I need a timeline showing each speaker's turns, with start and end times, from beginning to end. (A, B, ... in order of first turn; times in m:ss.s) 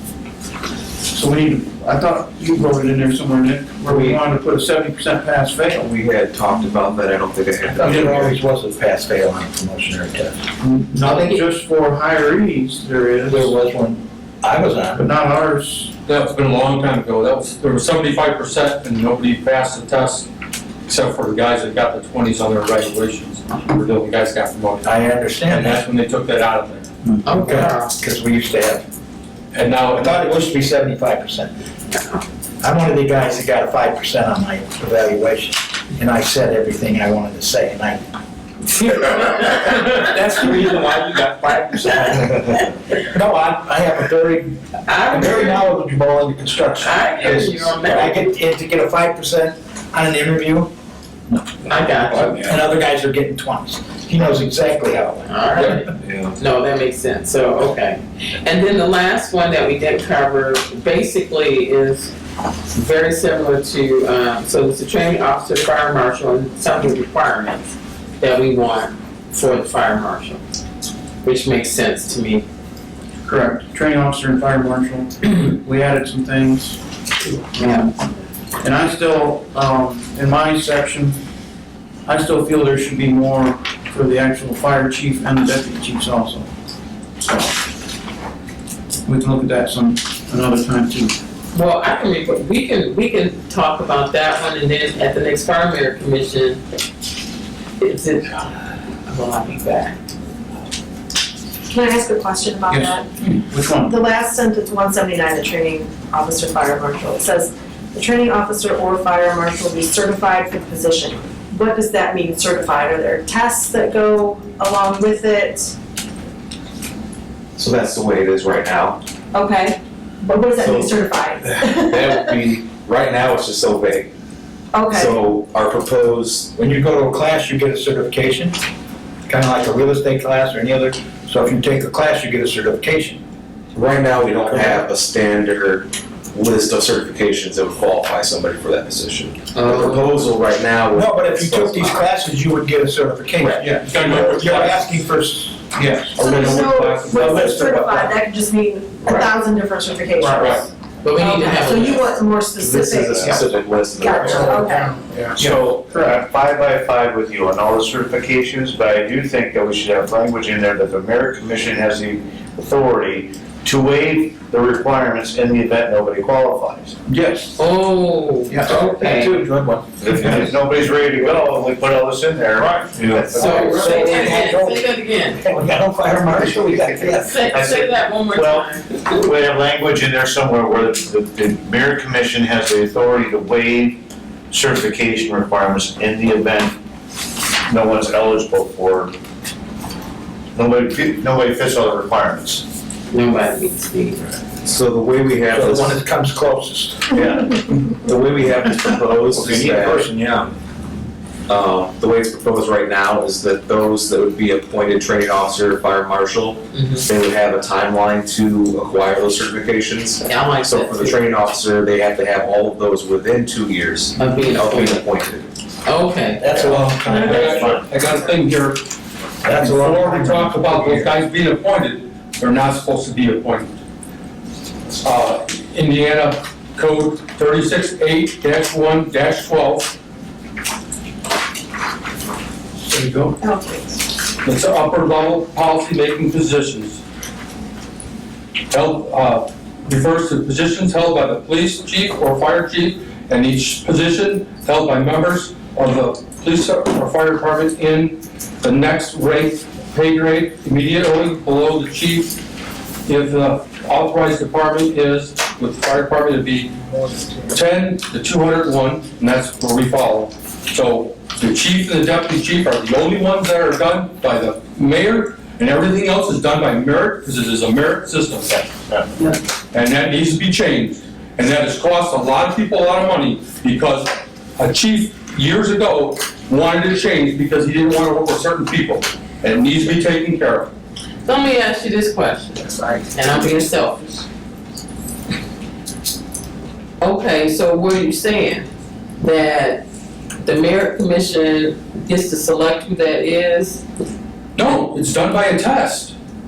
0:01.1-0:05.9 A
0:03.9-0:04.2 B
0:05.8-0:08.2 B
0:07.7-0:10.4 C
0:07.8-0:08.3 A
0:10.6-0:13.6 A
0:11.0-0:11.4 C
0:13.3-0:15.1 C
0:15.0-0:15.9 A
0:16.1-0:20.3 D
0:20.9-0:26.9 D
0:24.8-0:25.8 C
0:27.0-0:28.8 C
0:27.3-0:27.9 E
0:29.5-0:30.3 D
0:29.8-0:31.5 C
0:32.6-0:38.0 C
0:38.9-0:40.6 E
0:40.2-0:41.5 B
0:43.0-0:50.7 C
0:44.9-0:45.7 E
0:46.8-0:48.3 E
0:51.3-0:55.7 C
0:51.7-0:52.5 E
0:52.2-0:52.5 B
0:55.3-1:02.1 E
0:56.0-0:56.4 B
1:02.7-1:10.4 E
1:11.2-1:12.4 E
1:13.2-1:16.8 A
1:17.5-1:17.9 E
1:17.6-1:18.1 A
1:18.6-1:21.2 A
1:22.1-1:26.5 A
1:29.0-1:31.2 A
1:31.5-1:36.6 E
1:37.8-1:38.5 E
1:39.1-1:40.0 E
1:41.7-1:43.1 F
1:42.7-1:44.0 A
1:43.8-1:55.7 F
1:57.6-1:59.0 B
1:59.3-2:02.3 F
2:00.6-2:04.1 B
2:04.7-2:05.2 F
2:04.9-2:06.5 B
2:06.6-2:08.6 C
2:09.3-2:13.2 C
2:13.7-2:22.1 B
2:19.6-2:20.2 E
2:20.9-2:25.8 C
2:23.4-2:23.7 B
2:23.6-2:24.1 A
2:23.8-2:25.0 D
2:25.7-2:26.2 A
2:26.2-2:27.7 D
2:26.2-2:35.0 F
2:27.1-2:28.1 C
2:30.3-2:30.6 D
2:31.0-2:32.1 E
2:32.6-2:34.6 B
2:35.2-2:36.2 A
2:35.4-2:46.9 G
2:47.1-2:47.5 A
2:47.6-2:49.4 E
2:49.0-2:49.7 C
2:50.1-2:53.9 G
2:52.9-2:54.0 B
2:53.1-2:57.4 C
2:53.3-2:55.4 E
2:56.8-2:59.2 E
2:57.5-2:57.8 G
2:58.4-2:58.7 G
2:59.2-3:04.0 G
3:04.5-3:06.7 G
3:07.7-3:09.1 G
3:10.6-3:12.6 G
3:13.1-3:14.2 E
3:14.6-3:16.0 B
3:15.5-3:17.6 C
3:18.0-3:20.5 B
3:19.3-3:20.1 C
3:21.5-3:35.5 B
3:26.7-3:27.0 E
3:30.2-3:31.3 E
3:34.2-3:35.1 E
3:35.8-3:36.6 E
3:36.4-3:37.9 C
3:36.6-3:36.9 B
3:36.7-3:38.8 D
3:39.4-3:41.2 C
3:39.4-3:43.8 D
3:45.0-3:50.0 D
3:52.9-3:53.4 D
3:53.4-3:54.0 F
3:54.4-3:57.0 D
3:58.7-4:12.4 D
4:13.1-4:16.7 D
4:17.5-4:28.7 D
4:29.7-4:40.7 D
4:41.2-4:44.3 E
4:47.0-4:48.7 E
4:49.2-4:49.9 E
4:50.4-4:53.8 E
4:54.6-4:56.1 D